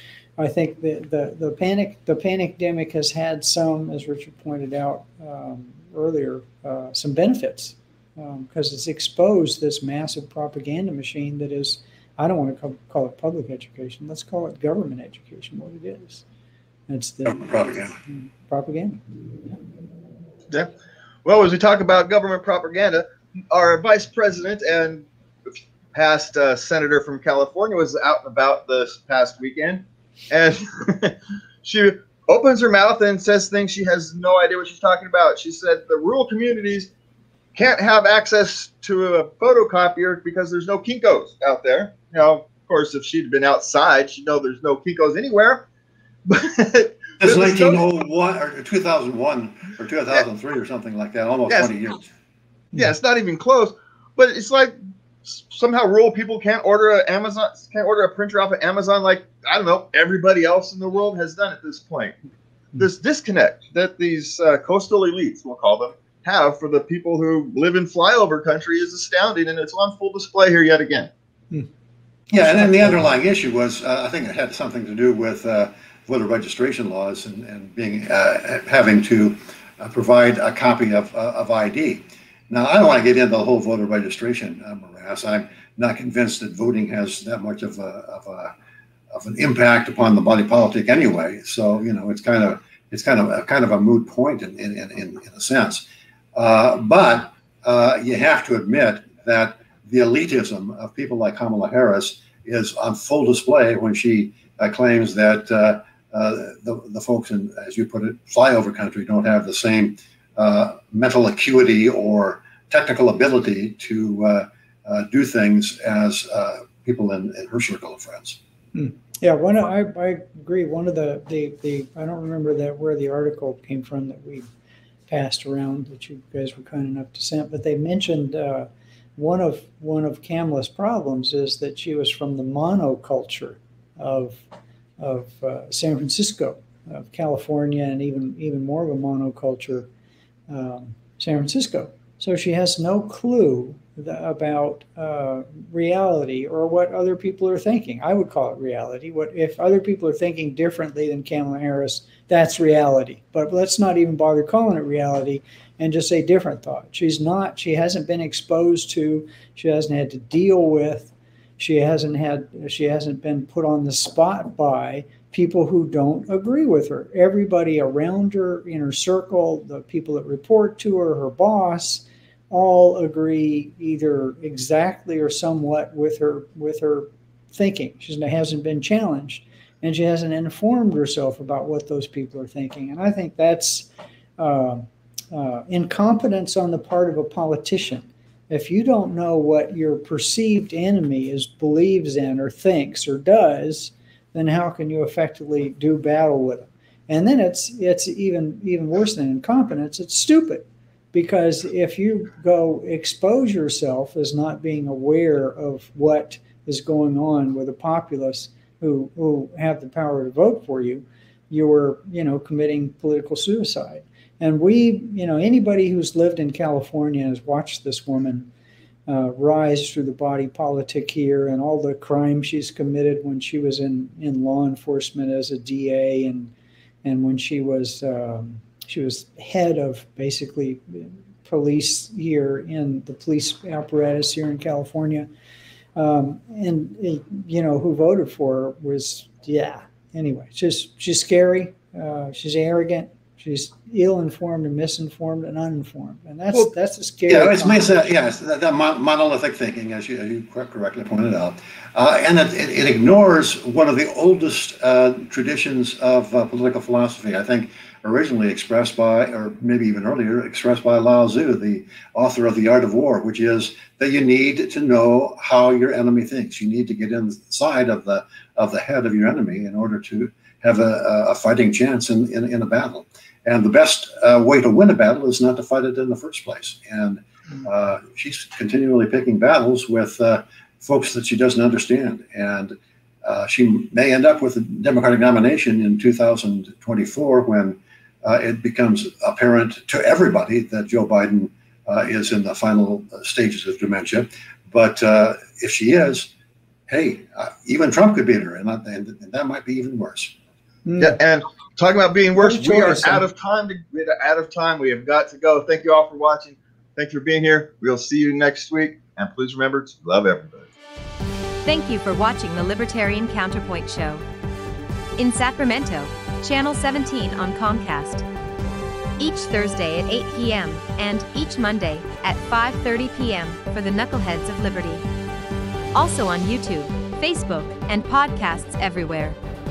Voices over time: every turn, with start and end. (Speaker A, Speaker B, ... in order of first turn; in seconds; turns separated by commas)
Speaker A: 0.4-16.2, Speaker A: 16.9-19.0, Speaker B: 17.2-18.0, Speaker C: 21.2-36.9, Speaker C: 37.5-45.6, Speaker C: 46.3-47.8, Speaker B: 47.2-52.1, Speaker C: 52.7-54.7, Speaker C: 55.2-62.2, Speaker C: 62.8-71.1, Speaker A: 72.3-73.0, Speaker B: 72.3-88.5, Speaker B: 89.1-118.4, Speaker A: 118.7-124.5, Speaker A: 125.1-134.4, Speaker A: 135.0-139.9, Speaker A: 140.5-218.5, Speaker A: 219.1-226.5, Speaker A: 227.0-235.3, Speaker A: 236.0-248.1, Speaker B: 247.3-296.3, Speaker B: 296.9-300.4, Speaker A: 300.9-301.2, Speaker C: 301.0-310.7, Speaker A: 302.4-303.2, Speaker D: 311.6-314.2, Speaker D: 315.2-318.2, Speaker D: 319.2-325.0, Speaker D: 325.9-329.4